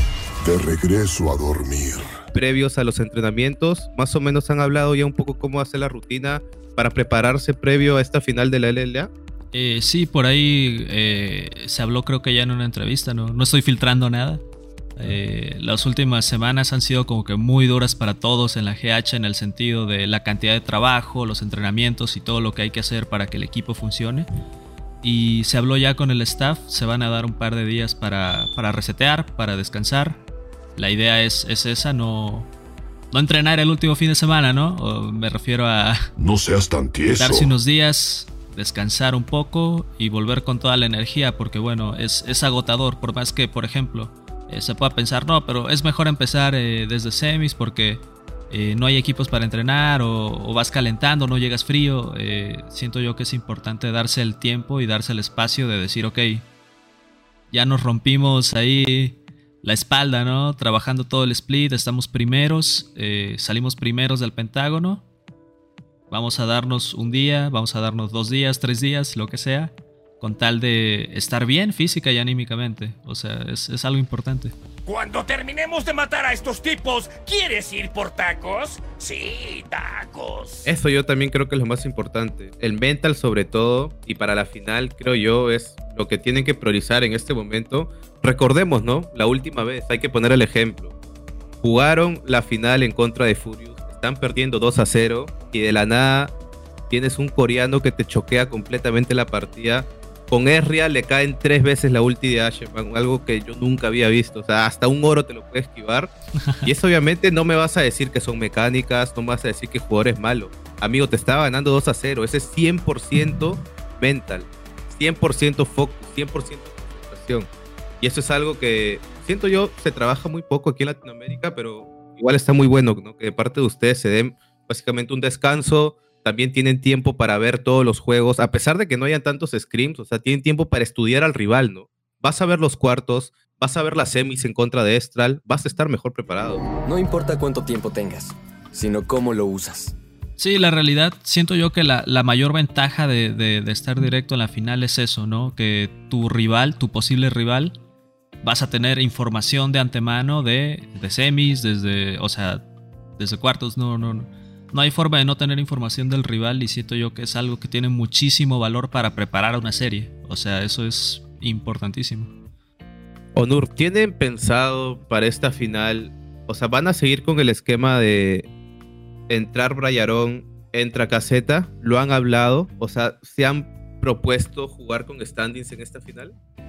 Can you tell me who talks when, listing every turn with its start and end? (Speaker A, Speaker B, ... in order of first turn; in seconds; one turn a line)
Speaker A: 0.4-2.1
Speaker B: 2.3-9.1
Speaker C: 9.5-14.4
Speaker C: 15.0-24.3
Speaker C: 25.0-30.2
Speaker C: 30.8-32.5
Speaker C: 33.1-36.0
Speaker A: 36.2-37.5
Speaker C: 37.2-56.4
Speaker C: 57.5-65.0
Speaker C: 66.1-74.5
Speaker D: 74.9-80.7
Speaker B: 80.7-90.9
Speaker B: 91.6-96.3
Speaker B: 96.9-106.1
Speaker B: 106.6-117.5
Speaker B: 118.0-136.7
Speaker E: 136.9-139.9
Speaker C: 140.4-147.8
Speaker C: 148.4-152.7
Speaker C: 153.2-162.3
Speaker B: 163.3-168.5
Speaker B: 169.3-176.3